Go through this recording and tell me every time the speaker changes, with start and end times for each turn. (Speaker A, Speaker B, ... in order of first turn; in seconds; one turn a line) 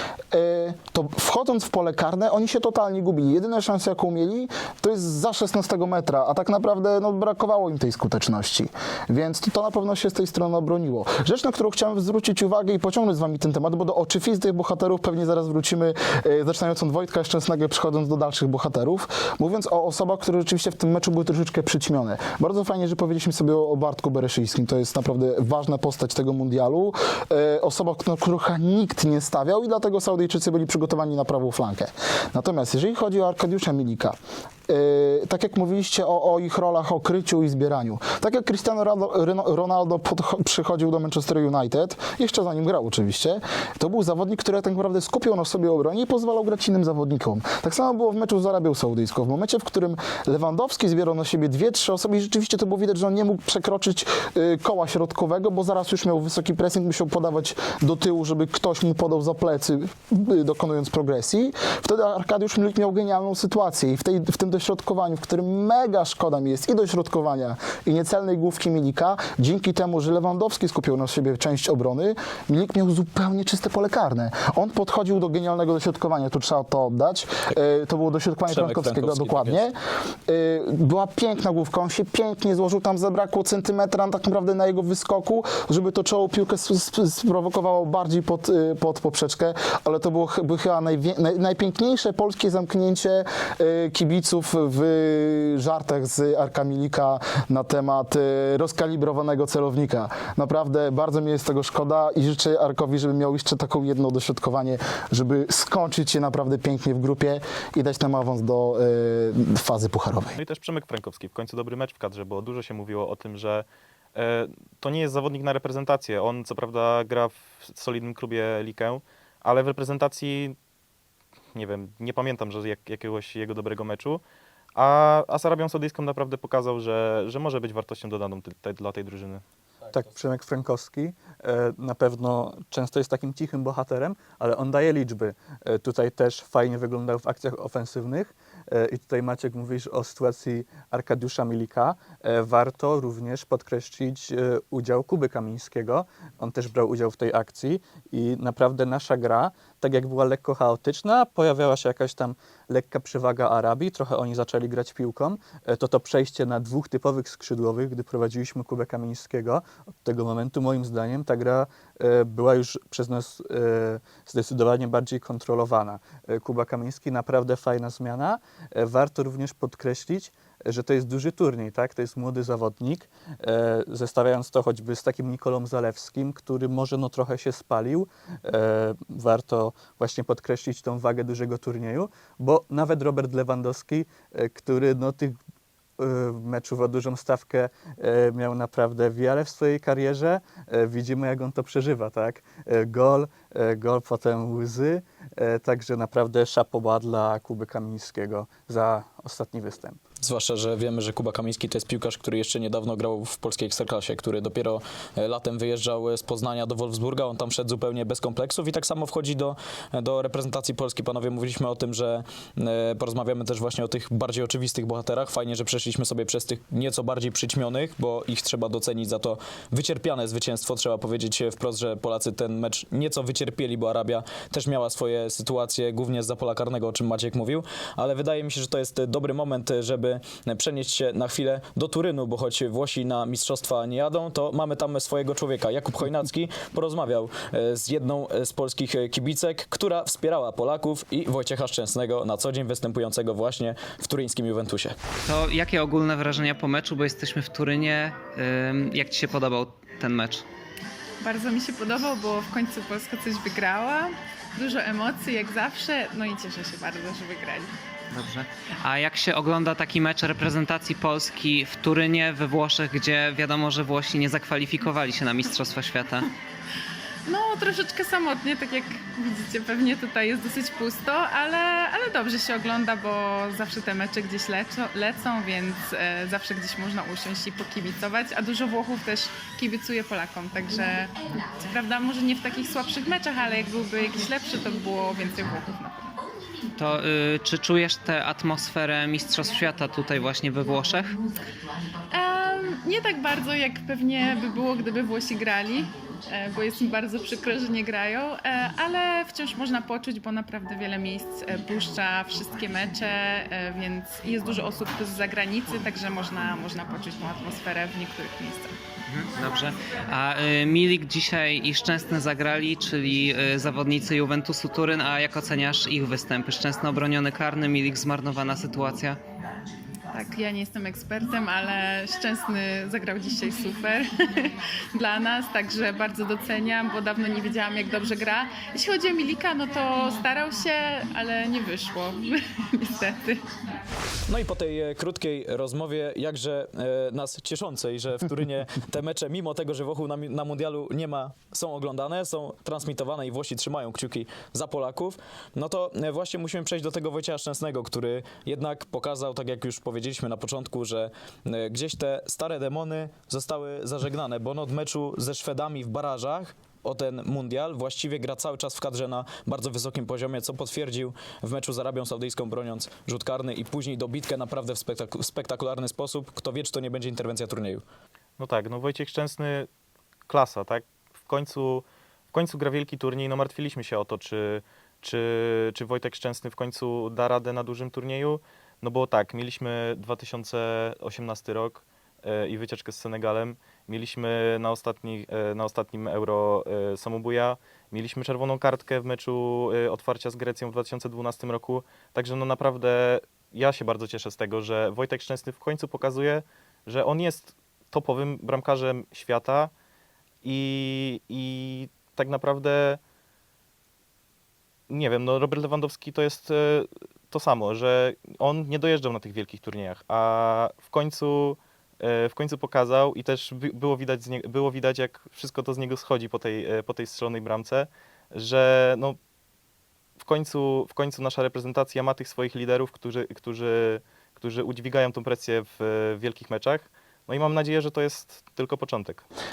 Speaker A: 0.3-79.7
Speaker B: 78.5-79.6
Speaker A: 80.3-110.4
Speaker C: 110.4-120.5
Speaker C: 121.5-124.2
Speaker C: 124.7-129.4
Speaker D: 129.9-185.4
Speaker D: 186.0-200.0
Speaker B: 200.2-244.9
Speaker E: 245.2-250.4
Speaker F: 251.2-257.7
Speaker E: 258.1-266.3
Speaker F: 267.2-286.1
Speaker E: 286.8-291.2
Speaker F: 292.1-308.7
Speaker E: 309.1-319.2
Speaker F: 320.1-333.5
Speaker B: 334.3-367.8
Speaker C: 368.4-369.7
Speaker C: 370.3-399.7
Speaker C: 400.4-403.0
Speaker C: 404.9-419.2
Speaker C: 420.2-429.2